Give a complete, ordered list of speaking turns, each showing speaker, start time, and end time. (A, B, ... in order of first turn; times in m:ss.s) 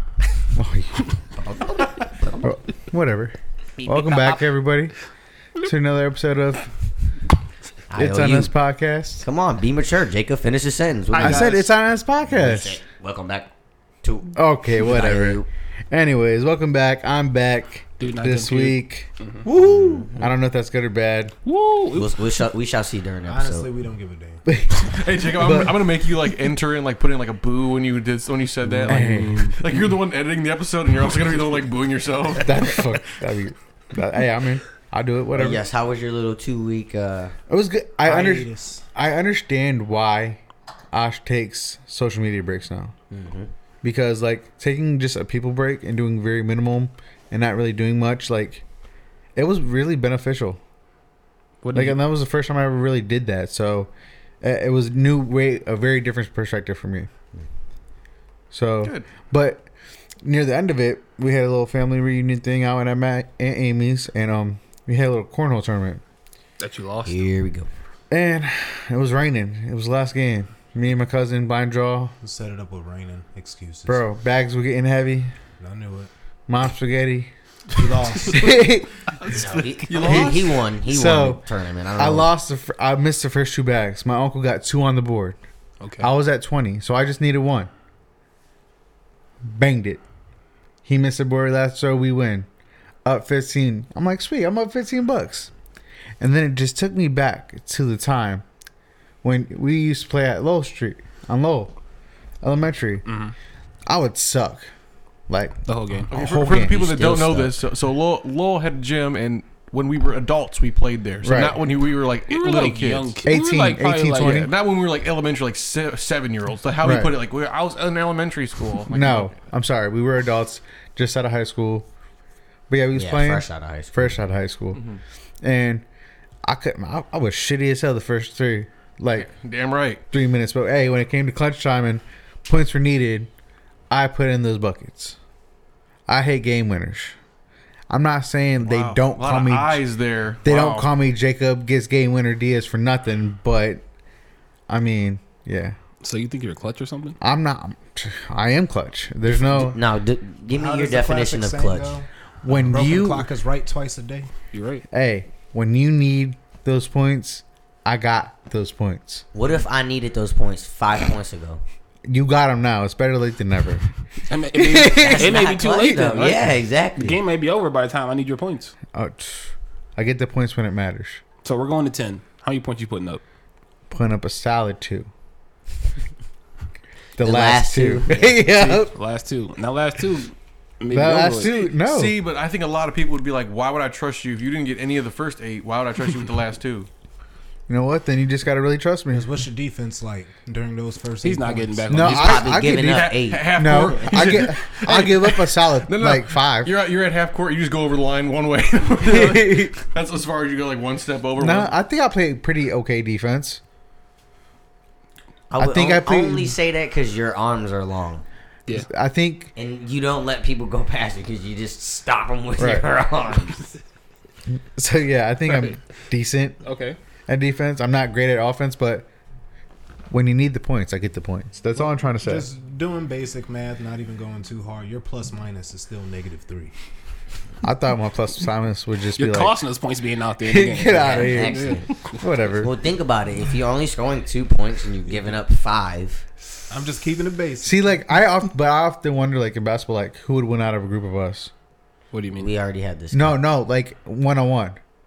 0:00.5-0:01.0 A
0:01.3-0:02.4 B
0:02.4-0:04.9 A
0:03.8-0:04.5 B
0:05.6-0:06.7 A
0:07.9-0:08.5 B
0:08.0-0:09.2 A
0:09.2-0:11.5 B
0:11.1-0:11.6 C
0:11.2-0:12.8 A
0:12.3-0:13.5 B
0:14.0-0:15.5 B
0:14.3-0:21.3 A
0:18.0-0:19.4 C
0:19.4-0:20.3 B
0:21.4-0:22.1 C
0:21.9-0:23.7 B
0:23.2-0:24.4 D
0:24.5-0:25.8 A
0:24.9-0:32.9 E
0:28.6-0:29.6 C
0:28.9-0:29.5 A
0:32.4-0:35.6 A
0:35.4-0:37.4 B
0:37.5-0:40.4 A
0:38.0-0:38.8 D
0:40.9-0:42.9 A
0:43.1-0:43.5 B
0:43.8-0:48.6 A
0:49.3-0:50.6 A
0:51.6-0:52.0 C
0:51.7-0:57.1 A
0:58.5-0:59.7 A
1:00.2-1:06.0 A
1:06.6-1:07.3 C
1:07.0-1:07.7 B
1:08.1-1:12.1 A
1:12.2-1:14.0 D
1:13.9-1:15.3 A
1:15.6-1:16.1 D
1:16.5-1:17.3 A
1:17.7-1:18.5 D
1:18.2-1:18.9 A
1:19.2-1:20.6 E
1:19.2-1:22.3 B
1:19.9-1:21.4 A
1:22.0-1:25.4 A
1:25.8-1:26.1 C
1:26.0-1:27.7 A
1:29.4-1:30.0 A
1:30.8-1:32.5 A
1:33.0-1:35.5 A
1:36.2-1:38.4 A
1:39.2-1:41.7 A
1:42.4-1:43.0 A
1:43.0-1:43.3 C
1:43.8-1:44.7 A
1:45.3-1:46.9 A
1:45.7-1:46.1 C
1:46.1-1:53.1 E
1:46.4-1:47.6 B
1:51.2-1:51.6 A
1:52.3-1:54.5 C
1:53.2-1:54.5 A
1:54.2-1:59.4 E
1:56.8-1:57.2 A
1:58.9-2:01.9 A
2:02.7-2:04.8 A
2:02.9-2:04.1 B
2:04.7-2:05.0 E
2:05.4-2:05.8 A
2:06.4-2:09.3 A
2:09.2-2:10.0 E
2:10.1-2:13.3 A
2:13.9-2:15.2 A
2:16.1-2:17.2 A
2:17.9-2:19.8 A
2:18.6-2:19.0 D
2:19.2-2:20.9 E
2:20.4-2:23.8 A
2:24.7-2:25.8 A
2:26.0-2:27.2 C
2:27.2-2:29.8 A
2:29.3-2:32.0 B
2:30.5-2:34.3 D
2:32.4-2:33.3 A
2:34.5-2:34.8 C
2:34.9-2:39.2 A
2:39.3-2:41.6 B
2:42.0-2:43.9 A
2:44.3-2:48.8 C
2:44.6-2:45.3 A
2:44.8-2:47.2 B
2:48.9-2:51.2 A
2:51.4-2:53.2 C
2:53.9-2:55.1 A
2:57.2-2:58.9 A
2:57.2-2:58.4 B
2:58.9-3:01.5 C
3:00.9-3:02.2 A
3:01.6-3:06.9 E
3:07.7-3:09.3 A
3:09.1-3:12.0 D
3:11.2-3:12.5 C
3:11.9-3:16.7 A
3:12.0-3:13.6 B
3:12.6-3:21.7 E
3:19.0-3:19.8 A
3:21.4-3:23.6 A
3:25.5-3:28.2 B
3:25.6-3:26.6 A
3:28.7-3:29.5 A
3:29.6-3:33.6 B
3:32.6-3:32.9 A
3:34.5-3:36.6 A
3:35.5-3:35.7 C
3:36.6-3:37.0 C
3:37.3-3:39.1 A
3:40.1-3:42.5 A
3:41.8-3:46.7 D
3:47.6-3:49.6 A
3:49.2-3:52.3 C
3:50.4-3:52.7 A
3:50.9-3:51.9 B
3:52.6-3:56.2 B
3:56.7-3:57.8 D
3:57.6-4:01.5 A
4:02.1-4:02.5 C
4:02.4-4:03.4 B
4:03.1-4:04.8 A